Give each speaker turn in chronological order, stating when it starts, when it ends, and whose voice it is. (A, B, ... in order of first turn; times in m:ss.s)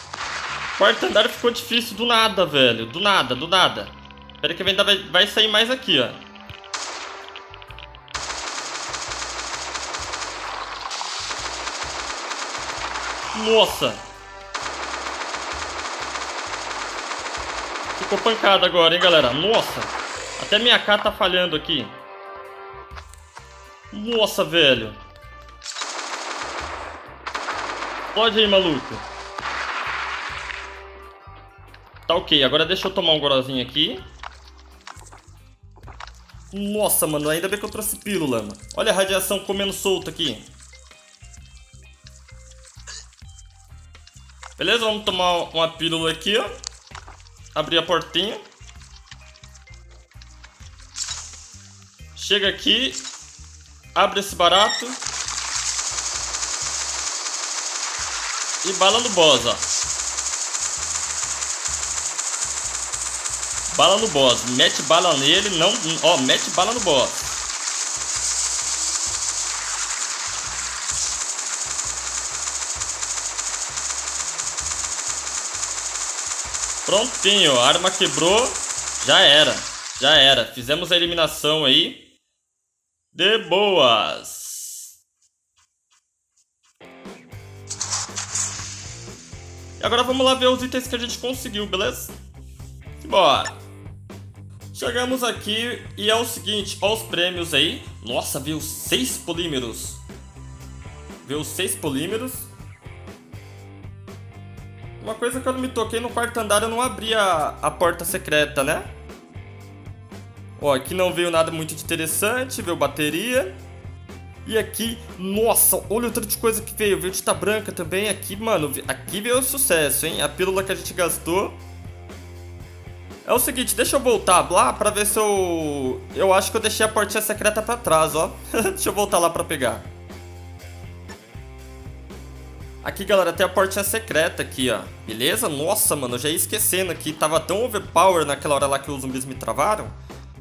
0:00.8-0:06.2 A
0:13.3-0:14.0 A
0:18.0-0:22.0 A
0:23.9-0:25.0 A
0:28.1-0:29.1 A
0:32.1-0:34.1 A
0:36.5-0:40.5 A
0:44.6-0:46.5 A
0:47.6-0:48.4 A
0:52.2-0:53.1 A
0:54.0-0:55.0 A
0:58.6-0:59.6 A
1:03.7-1:07.2 A
1:16.9-1:22.1 A
1:23.1-1:24.9 A
1:29.8-1:32.1 A
1:33.0-1:33.6 A
1:34.7-1:40.0 A
1:41.2-1:42.5 A
1:45.0-1:48.9 A
1:50.6-1:53.6 A
1:54.4-2:01.6 A
2:03.2-2:09.9 A
2:12.8-2:19.9 A